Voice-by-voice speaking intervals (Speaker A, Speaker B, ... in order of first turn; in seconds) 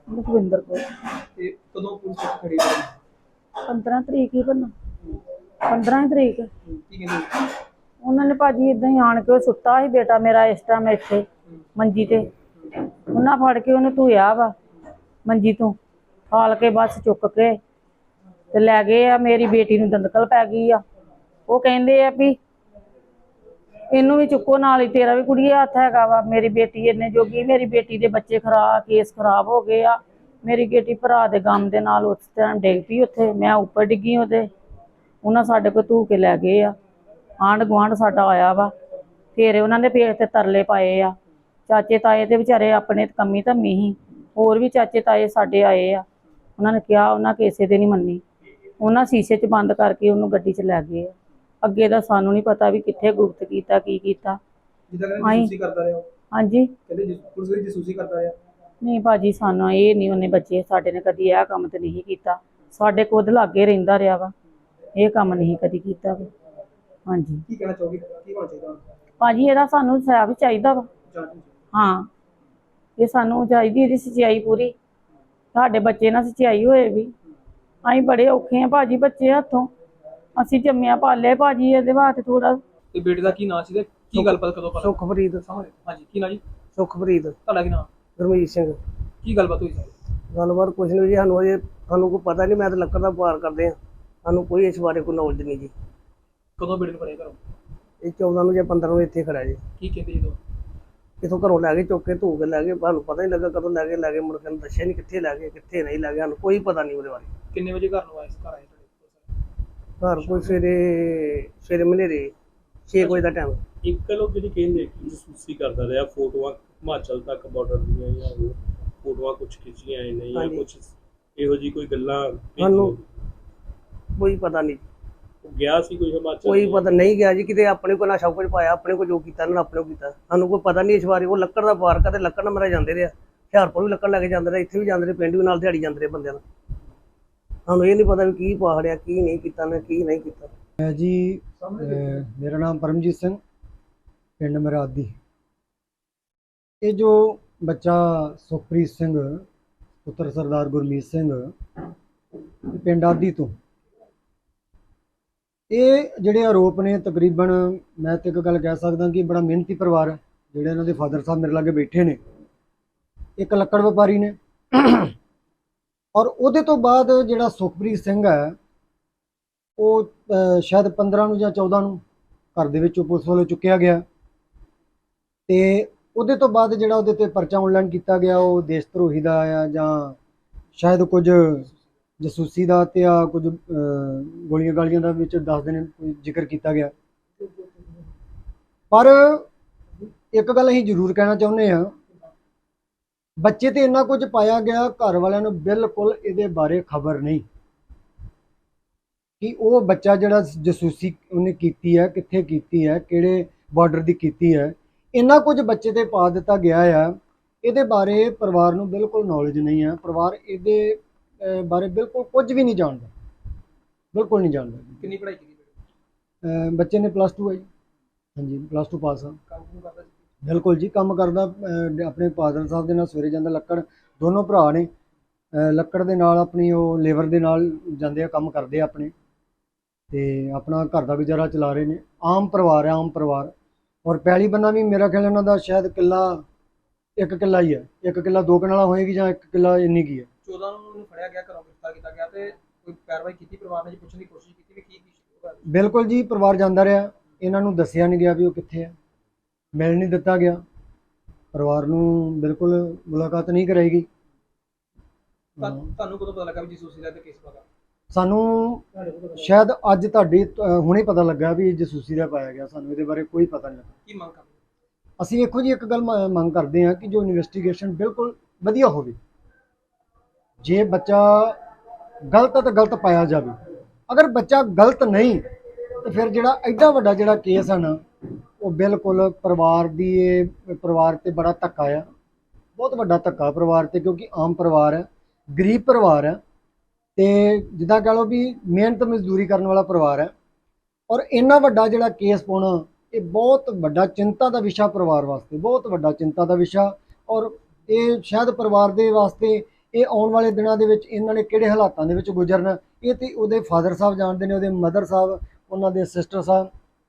Speaker A: 0.1-0.8, 3.7-4.7, 5.7-6.5, 8.0-11.2, 11.8-12.3, 13.1-14.5, 15.3-15.8, 16.3-17.6, 18.5-20.8, 21.5-22.4, 23.9-34.5, 35.2-36.8, 37.4-38.7, 39.4-41.1, 41.7-46.0, 46.6-48.2, 48.8-54.4, 55.2-55.5, 56.3-56.7, 58.8-64.3, 65.0-66.3, 67.1-67.4, 69.2-70.9, 71.7-72.1, 73.0-74.7, 75.5-77.1, 77.8-79.7, 80.4-82.6
Speaker B: 1.4-2.9, 6.7-7.3, 54.9-56.1, 56.9-58.4, 67.5-68.8, 71.1-71.5, 82.9-86.4, 87.5-87.9, 89.2-89.9, 96.6-97.4, 99.8-100.4, 107.5-109.3, 110.2-110.6, 113.0-113.3, 215.0-215.7, 219.5-220.2, 240.4-245.6, 255.6-257.6, 258.9-259.5, 264.1-264.5
Speaker C: 84.1-85.4, 86.8-87.4, 88.2-88.8, 90.3-95.7, 98.0-99.6, 101.2-107.3, 110.0-112.3, 112.9-113.6, 120.3-120.7, 122.6-123.0, 124.2-124.8, 126.4-136.4, 137.7-140.5
Speaker D: 113.8-123.0, 125.4-127.1
Speaker E: 140.8-143.4, 144.4-145.1, 146.8-149.4, 150.1-151.5, 152.7-153.6, 155.7-162.2, 163.4-165.1, 166.2-168.6, 169.8-172.0, 172.6-174.0, 175.5-180.2, 180.8-186.9, 188.9-189.5, 190.3-191.9, 193.4-197.4, 199.4-213.1, 214.1-215.1, 216.4-217.7, 218.4-219.4, 220.4-224.9, 225.5-229.1, 230.1-233.5, 234.1-236.4, 237.2-240.3, 245.7-248.9, 249.7-250.6, 251.5-254.1, 258.1-263.9, 265.2-269.2, 270.6-271.6, 272.3-273.6, 274.1-275.4, 276.0-278.0, 278.6-282.1, 282.8-286.4, 287.2-290.3, 291.1-306.7